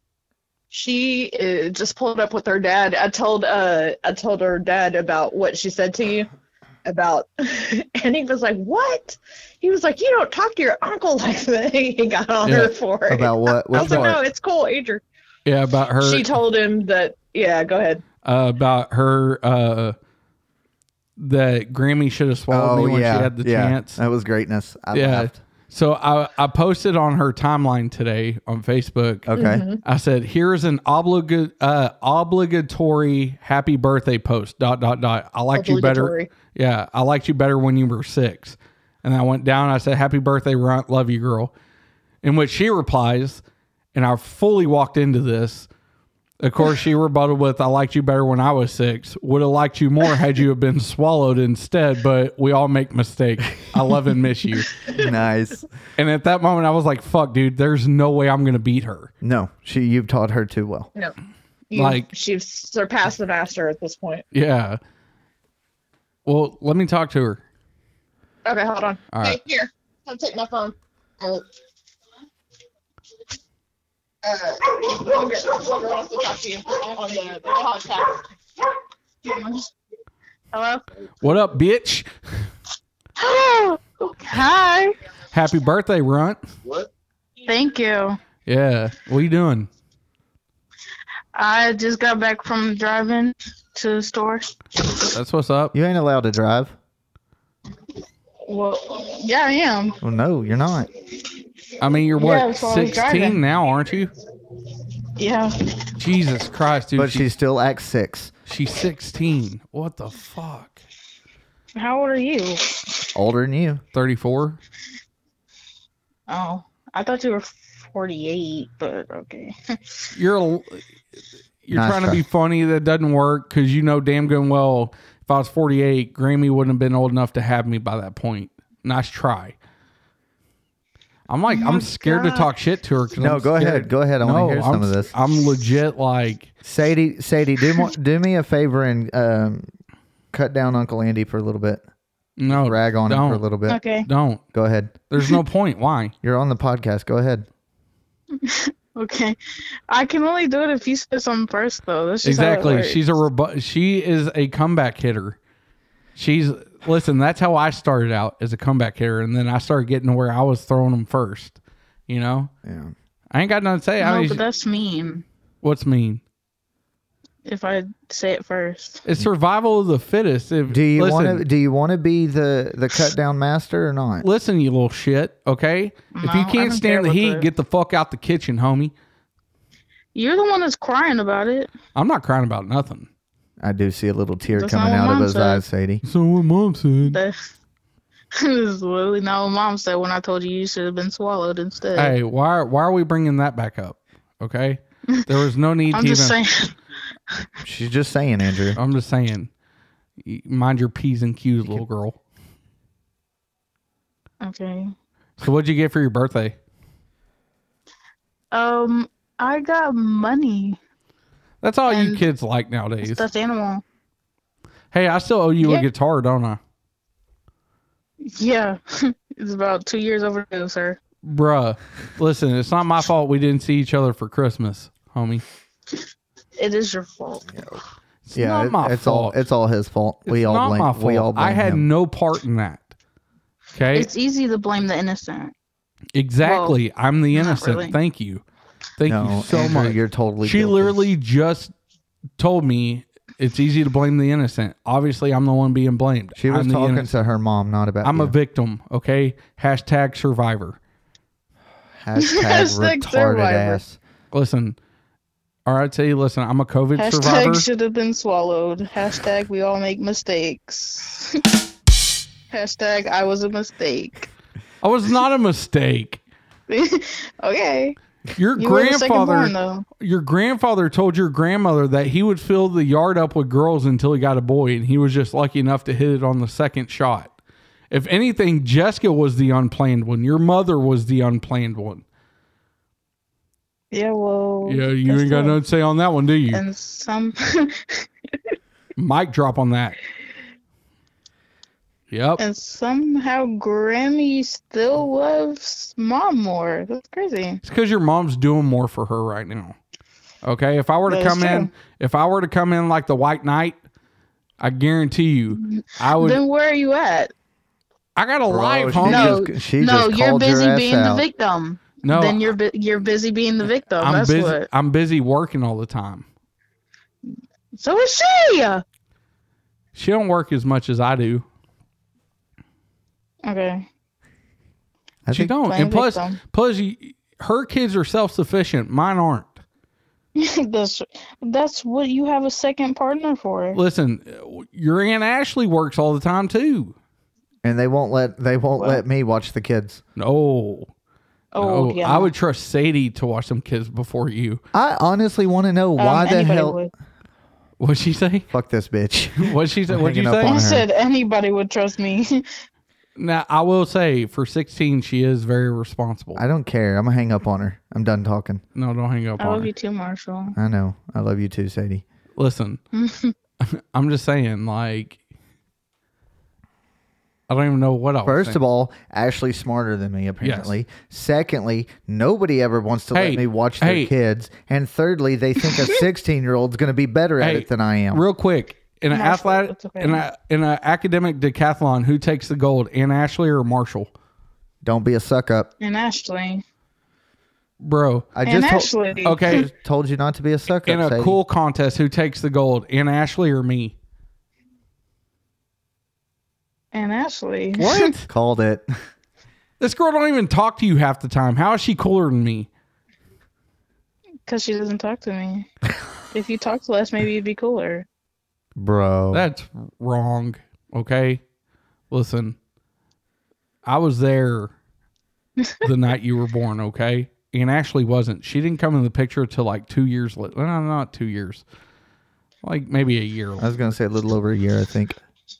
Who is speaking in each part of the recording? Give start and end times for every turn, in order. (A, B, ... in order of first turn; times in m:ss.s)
0:00.7-0:06.3 A
0:06.8-0:15.0 A
0:12.4-0:12.7 B
0:13.1-0:14.2 C
0:13.7-0:14.1 B
0:15.4-0:16.3 B
0:16.0-0:18.0 A
0:18.2-0:20.0 B
0:21.2-0:24.0 B
0:22.5-0:25.4 C
0:24.9-0:41.5 B
0:29.3-0:29.6 C
0:29.4-0:29.8 A
0:35.5-0:36.3 A
0:42.2-0:43.4 B
0:43.9-0:45.7 B
0:46.4-0:54.7 B
0:54.9-0:55.7 C
0:56.0-0:59.1 B
0:59.2-1:00.9 C
1:01.7-1:02.1 B
1:01.7-1:04.2 A
1:04.3-1:04.8 B
1:06.2-1:07.4 B
1:08.4-1:11.4 A
1:09.1-1:09.4 B
1:14.2-1:18.2 A
1:19.2-1:19.7 D
1:20.5-1:20.8 D
1:21.2-1:22.1 B
1:23.2-1:23.8 A
1:24.1-1:24.9 D
1:25.3-1:26.4 B
1:27.4-1:28.2 D
1:28.4-1:29.7 B
1:31.3-1:34.4 D
1:35.1-1:35.7 B
1:35.7-1:36.7 C
1:38.5-1:40.0 D
1:40.0-1:40.9 C
1:41.8-1:44.1 B
1:42.2-1:43.4 D
1:45.2-1:45.5 D
1:46.0-1:47.3 B
1:46.9-1:48.3 C
1:48.5-1:50.8 B
1:51.8-1:52.8 D
1:53.1-1:53.8 C
1:53.9-1:54.6 B
1:56.3-2:00.0 D
2:00.1-2:00.8 B
2:01.6-2:09.6 B
2:01.7-2:02.2 C
2:11.3-2:16.5 B
2:11.5-2:12.5 D
2:13.2-2:15.1 C
2:16.6-2:19.7 C
2:20.3-2:21.8 C
2:22.4-2:23.4 B
2:22.5-2:23.8 C
2:23.7-2:24.1 D
2:24.0-2:24.4 B
2:24.5-2:24.9 C
2:25.1-2:26.1 B
2:26.2-2:27.4 C
2:28.4-2:29.4 D
2:29.9-2:33.0 D
2:32.2-2:35.4 B
2:36.2-2:42.5 B
2:42.6-2:42.9 C
2:43.3-2:44.4 B
2:44.0-2:45.2 D
2:45.6-2:46.2 B
2:47.4-2:49.0 D
2:49.0-2:51.4 B
2:50.7-2:54.2 C
2:54.2-2:58.9 B
2:56.1-2:57.4 D
3:00.1-3:01.7 D
3:01.9-3:03.1 B
3:03.6-3:06.0 C
3:04.5-3:05.6 D
3:06.0-3:07.2 B
3:07.0-3:07.3 D
3:08.3-3:12.1 D
3:11.9-3:16.4 B
3:15.9-3:16.7 D
3:17.6-3:18.8 C
3:18.8-3:19.5 B
3:20.2-3:22.2 B
3:24.4-3:24.9 D
3:25.4-3:26.6 B
3:28.5-3:30.8 D
3:31.6-3:33.2 B
3:31.9-3:32.2 D
3:33.0-3:33.8 D
3:34.9-3:36.6 B
3:38.2-3:41.0 D
3:41.2-3:45.4 B
3:46.6-3:47.6 D
3:48.2-3:49.4 B
3:48.3-3:51.8 C
3:50.2-3:52.9 B
3:53.7-3:54.1 B
3:53.9-3:55.5 D
3:56.1-3:58.4 B
3:56.4-3:56.8 D
3:57.3-3:58.0 D
3:59.0-4:01.7 B
3:59.1-4:01.0 C
4:02.4-4:07.1 B
4:06.4-4:08.3 C
4:08.0-4:10.8 B
4:12.0-4:14.0 C
4:12.2-4:13.8 D
4:14.3-4:14.8 B
4:15.6-4:17.6 B
4:17.0-4:21.4 D
4:22.5-4:24.3 D
4:24.8-4:26.2 B
4:26.7-4:28.0 D
4:28.4-4:37.3 B
4:28.6-4:29.8 D
4:37.9-4:42.0 B
4:43.9-4:45.6 D
4:44.6-4:46.6 B
4:46.5-4:48.1 D
4:49.0-4:50.0 B
4:52.1-4:52.4 B
4:52.4-4:57.6 D
4:57.6-4:59.8 B
5:00.4-5:03.8 B
5:01.1-5:01.7 D
5:04.6-5:06.4 B
5:05.6-5:07.3 D
5:08.2-5:09.3 B
5:08.4-5:11.2 C
5:09.0-5:14.7 D
5:12.0-5:12.5 B
5:14.0-5:16.2 B
5:17.7-5:18.8 D
5:19.9-5:21.4 B
5:23.4-5:23.8 D
5:25.2-5:25.5 C
5:25.3-5:29.6 B
5:25.6-5:26.4 D
5:30.4-5:33.8 D
5:33.7-5:36.9 B
5:37.6-5:40.0 C
5:40.2-5:40.9 B
5:41.5-5:42.3 D
5:41.6-5:44.6 B
5:44.7-5:46.8 C
5:46.0-5:46.9 D
5:47.8-5:48.5 B
5:48.5-5:50.8 C
5:49.4-5:50.6 B
5:50.4-5:52.5 D
5:53.2-5:56.4 B
5:56.4-5:58.6 C
5:58.7-5:59.7 B
5:59.4-6:00.6 D
6:00.5-6:02.0 C
6:02.4-6:02.8 B
6:02.9-6:03.3 D
6:03.6-6:05.2 B
6:07.5-6:08.6 B
6:08.2-6:18.2 C
6:10.4-6:10.7 B
6:13.1-6:14.1 B
6:17.4-6:24.1 B
6:19.1-6:20.2 D
6:24.8-6:25.7 C
6:25.8-6:26.6 D
6:27.8-6:28.3 B
6:28.3-6:31.4 C
6:28.4-6:29.7 D
6:29.2-6:29.7 B
6:30.8-6:33.9 B
6:36.9-6:38.1 D
6:37.8-6:38.3 B
6:38.3-6:38.9 C
6:39.8-6:42.7 B
6:44.4-6:45.7 D
6:46.3-6:48.0 D
6:48.8-6:49.4 C
6:49.3-6:51.4 B
6:52.1-6:52.6 B
6:53.8-6:54.7 B
6:55.8-7:01.6 B
7:02.6-7:03.6 B
7:03.6-7:05.2 C